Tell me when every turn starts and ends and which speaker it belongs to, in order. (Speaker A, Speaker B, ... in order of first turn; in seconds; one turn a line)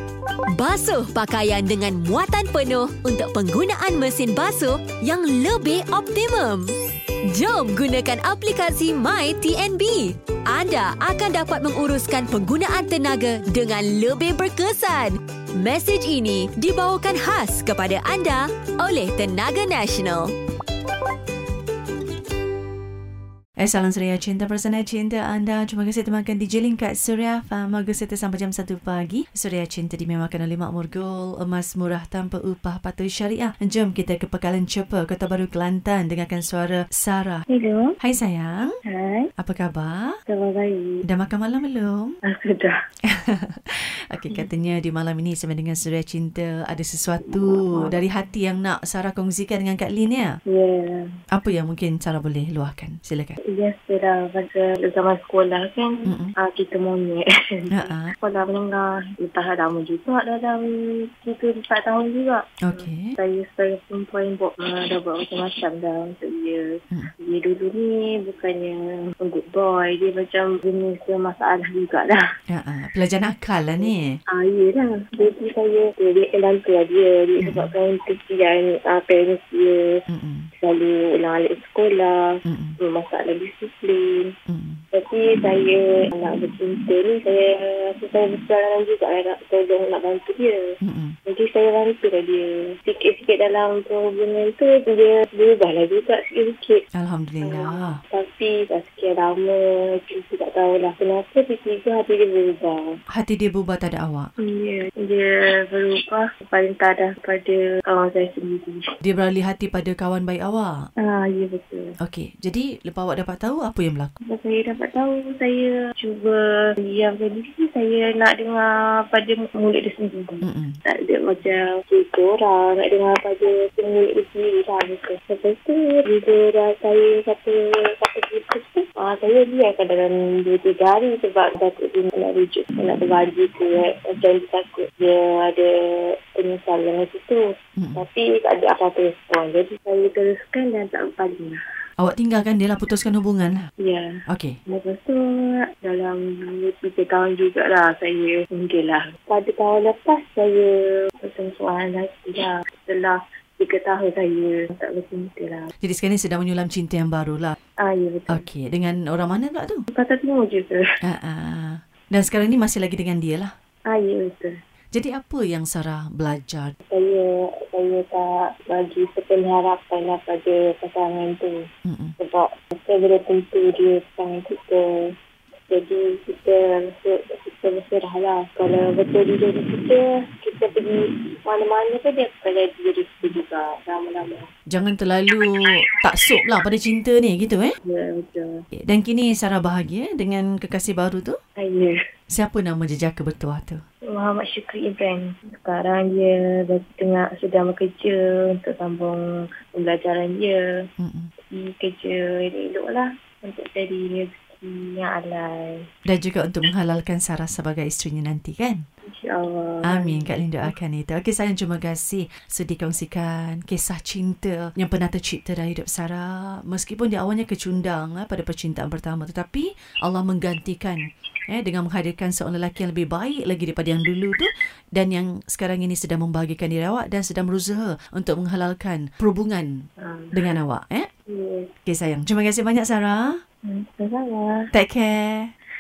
Speaker A: 0.5-20.3
Speaker B: 23.6-37.4
Speaker C: 37.5-38.0
Speaker B: 38.0-38.7
Speaker C: 38.8-39.3
Speaker B: 39.4-40.2
Speaker C: 40.3-41.0
Speaker B: 41.0-42.1
Speaker C: 42.2-42.8
Speaker B: 43.1-50.3
Speaker C: 50.5-51.1
Speaker B: 51.3-53.4
Speaker C: 53.5-72.2
Speaker B: 56.0-56.3
Speaker B: 57.7-58.1
Speaker B: 62.6-63.1
Speaker B: 72.5-74.2
Speaker C: 74.3-80.0
Speaker B: 77.4-77.7
Speaker B: 80.1-80.5
Speaker C: 80.6-84.3
Speaker B: 82.5-82.8
Speaker B: 84.5-84.8
Speaker C: 84.9-90.7
Speaker B: 90.8-91.2
Speaker C: 91.2-96.8
Speaker B: 97.0-98.0
Speaker C: 97.4-102.8
Speaker B: 103.1-104.3
Speaker C: 104.4-108.8
Speaker B: 109.0-110.7
Speaker C: 111.0-111.9
Speaker B: 112.0-114.1
Speaker C: 114.2-135.7
Speaker B: 120.4-120.8
Speaker C: 136.3-137.4
Speaker B: 137.8-138.0
Speaker C: 137.9-141.6
Speaker B: 142.0-143.7
Speaker C: 143.8-155.7
Speaker B: 144.3-144.6
Speaker B: 155.8-157.6
Speaker C: 157.8-158.4
Speaker B: 158.3-159.8
Speaker C: 159.9-160.8
Speaker B: 161.0-163.5
Speaker C: 163.9-164.6
Speaker B: 164.9-166.8
Speaker C: 166.9-171.7
Speaker B: 171.8-172.1
Speaker C: 172.2-175.1
Speaker C: 175.7-184.5
Speaker B: 184.7-187.7
Speaker C: 187.8-188.6
Speaker B: 188.8-191.3
Speaker C: 191.6-192.0
Speaker B: 192.3-193.8
Speaker C: 194.1-200.6
Speaker B: 201.0-201.3
Speaker C: 201.5-205.8
Speaker B: 206.1-208.8
Speaker C: 209.1-210.3
Speaker B: 209.8-229.8
Speaker C: 230.0-230.4
Speaker B: 230.3-231.1
Speaker C: 231.3-231.7
Speaker B: 231.8-233.4
Speaker C: 233.6-234.6
Speaker B: 234.7-235.5